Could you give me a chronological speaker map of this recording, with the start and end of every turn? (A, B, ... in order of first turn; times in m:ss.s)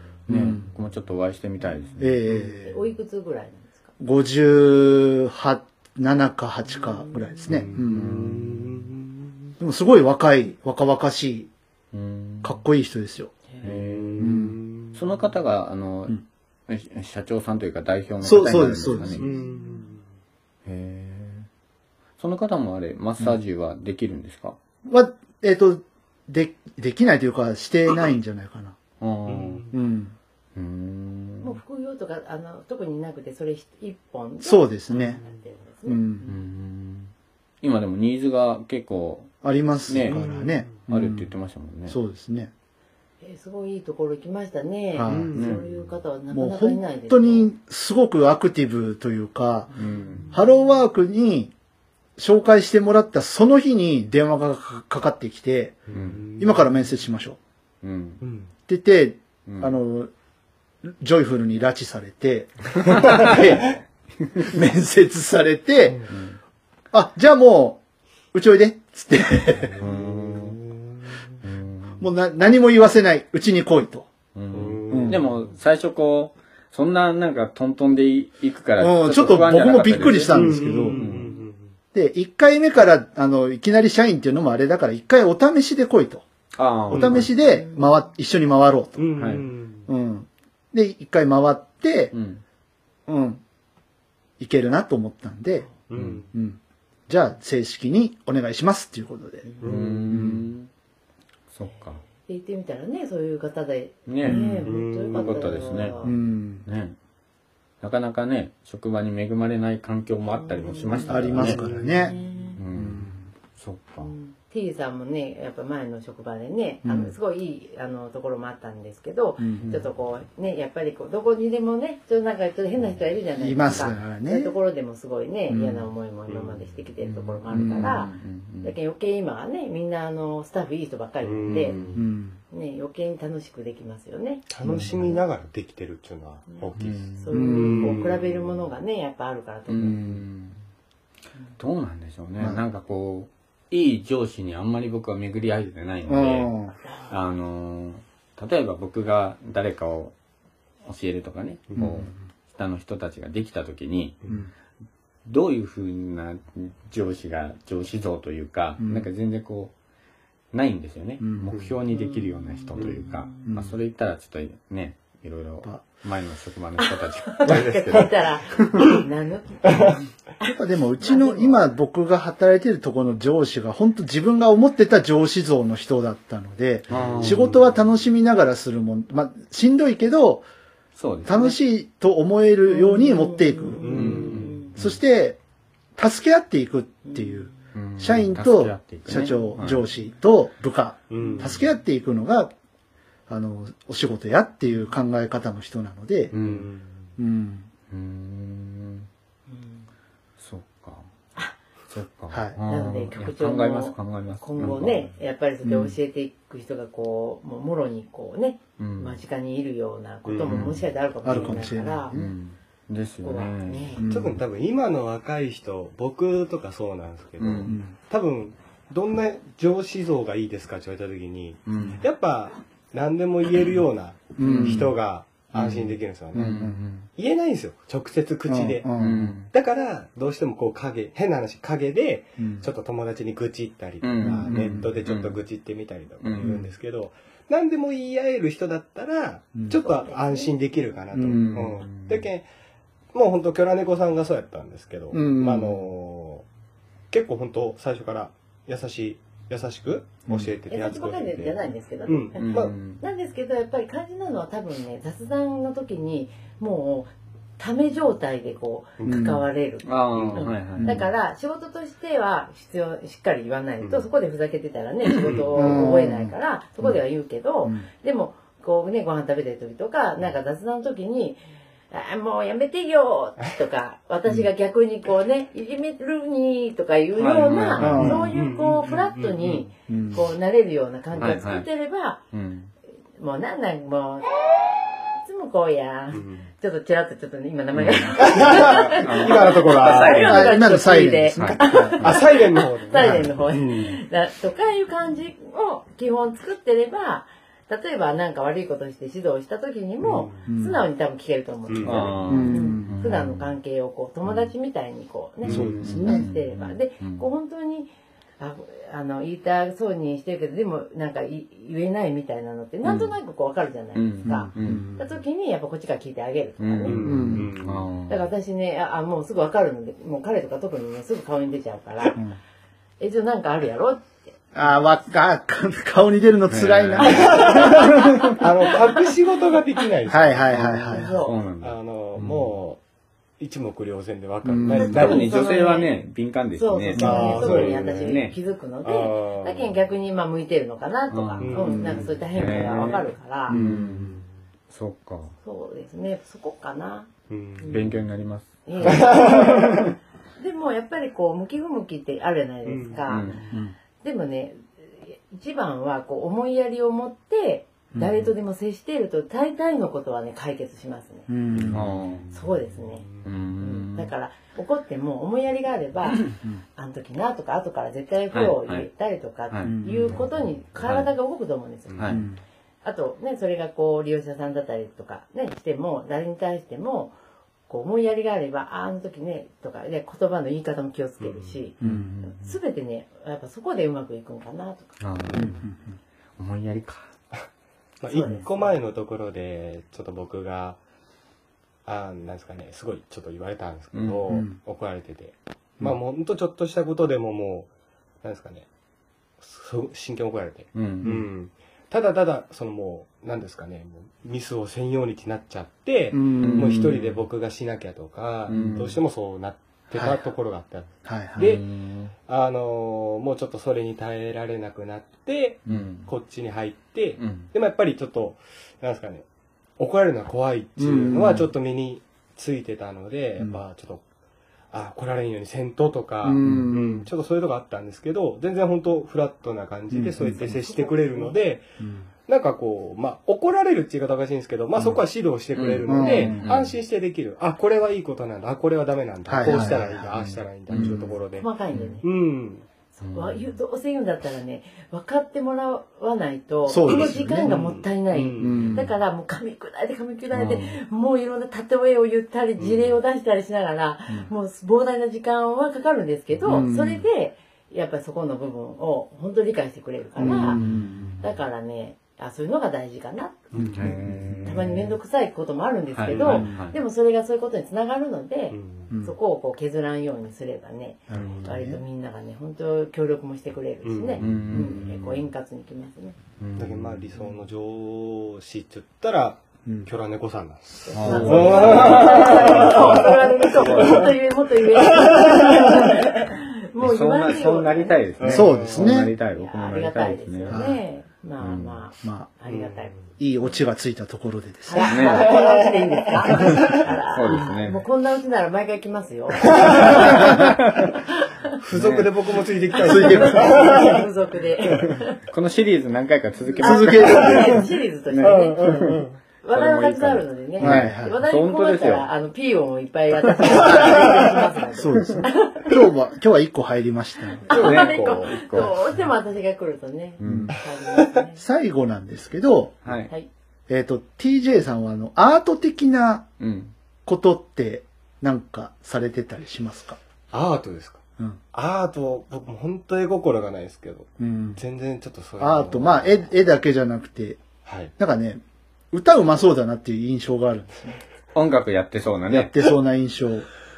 0:00.3-0:02.2 A
0:00.3-0:00.7 B
0:02.0-0:02.8 B
0:02.6-0:03.9 C
0:04.0-0:08.4 B
0:06.8-0:07.4 C
0:07.5-0:09.3 D
0:07.5-0:08.9 A
0:09.6-0:11.5 B
0:11.9-0:12.6 A
0:12.4-0:13.3 B
0:13.6-0:14.4 A
0:13.7-0:15.0 D
0:14.2-0:14.6 B
0:14.9-0:19.3 A
0:18.2-0:19.2 B
0:19.2-0:20.0 D
0:19.2-0:19.9 C
0:20.6-0:21.5 A
0:22.2-0:24.6 A
0:24.9-0:28.8 B
0:29.0-0:29.7 A
0:29.2-0:29.7 D
0:29.7-0:30.1 B
0:30.5-0:31.6 A
0:31.4-0:36.4 C
0:34.4-0:35.2 B
0:34.9-0:35.3 D
0:35.8-0:36.2 B
0:36.2-0:39.3 A
0:39.4-0:41.3 B
0:39.9-0:42.0 A
0:40.1-0:40.7 D
0:41.9-0:42.5 B
0:43.2-0:47.5 C
0:44.9-0:45.3 B
0:45.1-0:45.5 D
0:45.3-0:45.8 A
0:46.3-0:49.7 B
0:49.7-0:50.3 A
0:50.3-0:51.5 B
0:52.2-0:57.4 B
0:55.9-0:56.7 D
0:55.9-0:56.2 A
0:57.8-0:58.2 A
0:58.2-0:58.5 D
0:58.7-1:00.1 B
0:59.5-0:59.8 A
1:00.8-1:03.7 B
1:02.8-1:03.6 A
1:03.1-1:03.5 D
1:04.2-1:04.5 A
1:04.4-1:06.1 B
1:06.1-1:06.4 A
1:06.9-1:07.8 B
1:08.3-1:09.8 B
1:09.6-1:11.0 D
1:09.8-1:10.6 A
1:11.4-1:12.1 A
1:12.0-1:14.1 B
1:14.3-1:21.4 A
1:14.5-1:15.4 D
1:14.9-1:15.2 B
1:18.8-1:21.1 B
1:20.3-1:21.7 D
1:21.9-1:26.2 B
1:26.5-1:27.3 A
1:26.9-1:29.1 B
1:26.9-1:27.3 D
1:27.5-1:27.9 C
1:29.0-1:29.9 D
1:29.2-1:29.5 A
1:29.9-1:32.1 B
1:32.1-1:32.4 A
1:33.1-1:33.4 B
1:34.4-1:35.7 B
1:35.9-1:36.3 D
1:35.9-1:36.2 A
1:36.3-1:39.5 B
1:39.6-1:40.0 D
1:39.6-1:40.7 A
1:40.1-1:40.4 B
1:41.5-1:42.0 A
1:42.1-1:46.2 C
1:44.1-1:46.0 A
1:44.2-1:44.6 B
1:44.3-1:45.7 D
1:46.0-1:46.6 B
1:46.6-1:47.0 A
1:47.8-1:51.6 A
1:50.3-1:52.6 C
1:51.1-1:52.2 B
1:51.4-1:51.9 D
1:52.6-1:54.1 A
1:52.7-1:53.2 B
1:54.0-2:11.8 C
1:56.8-1:57.1 B
1:59.4-1:59.6 B
1:59.6-1:59.9 A
2:03.4-2:04.6 B
2:06.3-2:06.6 D
2:07.0-2:08.7 A
2:07.6-2:07.8 B
2:11.2-2:12.0 D
2:11.5-2:12.0 A
2:11.9-2:12.4 B
2:12.5-2:14.4 C
2:14.5-2:18.6 D
2:14.6-2:15.0 B
2:16.5-2:20.2 C
2:16.8-2:17.3 A
2:17.3-2:18.0 B
2:19.7-2:20.6 A
2:21.6-2:26.6 A
2:26.1-2:26.7 B
2:27.1-2:30.1 A
2:30.8-2:34.2 A
2:31.8-2:32.1 B
2:35.2-2:39.7 A
2:38.8-2:39.1 B
2:40.5-2:49.0 A
2:41.2-2:41.6 B
2:42.1-2:43.4 C
2:43.4-2:43.8 B
2:46.8-2:51.6 C
2:50.4-3:00.4 B
2:56.9-2:57.6 A
2:56.9-2:57.6 D
3:01.0-3:01.6 A
3:01.2-3:05.4 B
3:02.7-3:04.7 C
3:03.8-3:04.6 D
3:03.9-3:05.0 A
3:06.0-3:12.5 B
3:07.0-3:07.4 C
3:07.7-3:09.8 A
3:11.1-3:11.6 D
3:13.3-3:16.3 B
3:16.3-3:16.7 A
3:16.3-3:17.1 D
3:17.2-3:17.7 B
3:17.9-3:19.1 A
3:19.5-3:19.8 C
3:20.4-3:21.1 A
3:21.9-3:25.1 A
3:22.3-3:22.6 B
3:22.6-3:32.2 C
3:25.6-3:25.9 B
3:28.8-3:29.2 A
3:30.2-3:30.7 D
3:30.4-3:30.8 A
3:31.2-3:32.3 B
3:32.1-3:34.0 A
3:33.2-3:34.0 C
3:34.0-3:34.4 B
3:34.1-3:48.9 D
3:37.4-3:37.8 A
3:37.6-3:38.0 B
3:41.6-3:42.0 A
3:41.8-3:42.0 B
3:44.4-3:45.0 B
3:44.4-3:44.9 A
3:45.5-3:47.1 A
3:46.3-3:46.8 B
3:48.5-3:49.3 B
3:49.0-3:49.5 A
3:49.5-4:02.4 D
3:52.4-3:52.6 B
3:54.0-3:55.4 A
3:54.2-3:55.0 B
3:56.2-3:56.6 A
3:56.4-3:56.7 B
3:59.8-4:00.5 C
4:01.1-4:01.8 B
4:01.2-4:02.3 A
4:03.1-4:06.4 D
4:05.1-4:05.8 B
4:07.1-4:12.7 D
4:10.3-4:10.5 B
4:10.7-4:31.4 C
4:12.4-4:13.0 A
4:19.0-4:19.3 D
4:19.0-4:19.4 B
4:19.8-4:21.0 A
4:20.1-4:20.5 D
4:20.8-4:21.1 B
4:23.8-4:24.1 D
4:25.2-4:25.8 D
4:25.5-4:26.3 B
4:31.9-4:42.2 C
4:37.2-4:38.3 A
4:37.8-4:38.3 B
4:37.9-4:39.7 D
4:39.9-4:40.2 B
4:41.2-4:41.7 A
4:42.3-4:42.7 A
4:43.2-4:44.4 C
4:45.2-5:17.1 C
4:46.1-4:46.5 D
4:47.7-4:50.4 A
4:48.2-4:50.3 D
4:50.2-4:52.0 B
4:51.3-4:52.2 A
4:52.0-4:54.0 D
4:53.0-4:53.3 B
5:00.0-5:00.5 D
5:00.4-5:00.8 B
5:01.7-5:02.1 D
5:01.8-5:03.6 A
5:02.3-5:03.0 B
5:05.4-5:07.2 A
5:05.5-5:06.3 B
5:12.8-5:13.1 A
5:13.9-5:14.9 A
5:14.3-5:15.0 B
5:16.6-5:18.2 A
5:16.8-5:17.9 D
5:17.0-5:17.5 B
5:18.1-5:22.2 C
5:23.0-5:24.4 C
5:24.5-5:28.3 B
5:26.5-5:27.4 A
5:27.0-5:31.0 D
5:27.2-5:28.3 C
5:30.1-5:31.1 B
5:30.5-5:31.4 C
5:31.1-5:32.5 A
5:31.6-5:32.8 D
5:33.4-5:35.4 D
5:34.4-5:35.2 B
5:34.7-5:36.0 C
5:34.8-5:38.4 A
5:36.6-5:43.6 C
5:37.0-5:37.4 B
5:37.0-5:38.2 D
5:38.8-5:39.7 D
5:41.1-5:44.2 A
5:41.4-5:41.9 D
5:41.6-5:42.1 B
5:43.5-5:44.2 B
5:44.7-5:45.3 A
5:45.4-5:47.8 C
5:47.3-5:47.9 D
5:47.7-5:49.8 A
5:48.6-5:49.9 C
5:48.8-5:49.8 D
5:50.4-5:53.3 C
5:52.6-5:53.4 D
5:53.1-5:53.4 A
5:54.0-6:01.3 C
5:57.9-5:58.3 B
6:01.3-6:01.8 B
6:01.5-6:03.3 D
6:01.6-6:02.3 A
6:02.3-6:12.3 C
6:03.2-6:04.1 A
6:08.3-6:08.9 A
6:09.5-6:10.2 A
6:09.6-6:10.2 B
6:10.7-6:11.1 A
6:11.9-6:12.2 A
6:12.1-6:12.4 B
6:12.8-6:17.1 C
6:17.7-6:24.9 C
6:21.2-6:21.6 D
6:21.8-6:22.1 B
6:21.8-6:22.6 A
6:25.0-6:25.6 A
6:25.3-6:26.0 B
6:26.4-6:27.1 A
6:28.0-6:30.8 D
6:28.1-6:28.5 C
6:31.8-6:37.7 D
6:33.9-6:34.4 A
6:34.3-6:34.6 B
6:38.2-6:38.7 D
6:39.4-6:51.6 D
6:40.7-6:41.2 A
6:46.1-6:46.8 B
6:46.4-6:47.2 A
6:48.4-6:49.0 A
6:49.9-6:50.2 B
6:51.0-6:51.6 B
6:51.4-6:52.1 A
6:52.3-6:59.2 D
6:55.6-6:56.1 A
6:57.2-6:57.5 A
6:59.8-7:04.0 D
7:00.8-7:01.5 B
7:04.7-7:21.5 D
7:06.2-7:07.1 B
7:06.4-7:06.7 A
7:09.9-7:10.5 B
7:10.4-7:11.4 C
7:11.8-7:12.1 B
7:15.5-7:16.8 A
7:15.8-7:16.4 B
7:19.3-7:20.1 B
7:19.4-7:21.1 A
7:21.4-7:22.0 C
7:22.0-7:22.6 D
7:22.9-7:40.6 C
7:23.0-7:23.5 A
7:26.7-7:27.5 B
7:26.8-7:28.7 D
7:28.4-7:28.9 B
7:28.4-7:28.8 A
7:30.3-7:30.8 A
7:32.6-7:32.9 D
7:36.4-7:37.0 B
7:40.2-7:41.2 B
7:40.2-7:41.2 A
7:41.2-7:56.2 C
7:43.5-7:44.6 B
7:43.6-7:44.8 A
7:45.9-7:46.8 A
7:46.1-7:46.5 D
7:46.2-7:46.5 B
7:48.5-7:48.9 D
7:48.9-7:49.2 B
7:51.1-7:51.8 B
7:51.1-7:51.6 A
7:53.8-7:54.4 D
7:54.2-7:55.2 A
7:56.4-7:57.2 A
7:56.6-8:04.1 D
7:59.6-7:59.9 B
8:00.9-8:08.0 C
8:00.9-8:04.1 A
8:01.0-8:02.3 B
8:04.8-8:05.9 D
8:06.8-8:10.6 A
8:08.2-8:08.9 D
8:08.2-8:09.1 B
8:09.3-8:13.0 C
8:10.5-8:10.8 B
8:11.4-8:11.8 A
8:12.0-8:12.3 B
8:12.5-8:13.0 D
8:13.2-8:15.0 B
8:14.6-8:21.6 C
8:14.8-8:16.8 D
8:14.9-8:15.3 A
8:16.7-8:17.8 A
8:19.3-8:20.3 D
8:20.0-8:20.5 B
8:20.3-8:20.9 A
8:21.6-8:24.1 D
8:21.7-8:22.3 A
8:22.7-8:25.2 C
8:22.8-8:23.5 B
8:25.3-8:32.1 A
8:26.6-8:27.7 B
8:26.6-8:35.8 C
8:27.0-8:27.5 D
8:28.2-8:29.2 D
8:30.6-8:31.2 B
8:33.5-8:34.1 A
8:34.8-8:37.8 B
8:34.9-8:35.2 A
8:37.4-8:41.4 C
8:37.5-8:39.0 A
8:40.2-8:40.6 A
8:40.2-8:40.5 B
8:40.5-8:41.1 D
8:41.4-8:42.8 B
8:42.8-8:43.1 A
8:43.7-8:46.3 B
8:46.4-8:46.7 A
8:47.0-8:50.0 B
8:50.3-8:51.0 D
8:51.5-8:56.3 D
8:54.2-8:54.6 B
8:55.4-8:57.4 B
8:57.6-8:57.9 D
8:58.0-9:01.0 B
9:01.3-9:02.5 A
9:02.3-9:03.5 B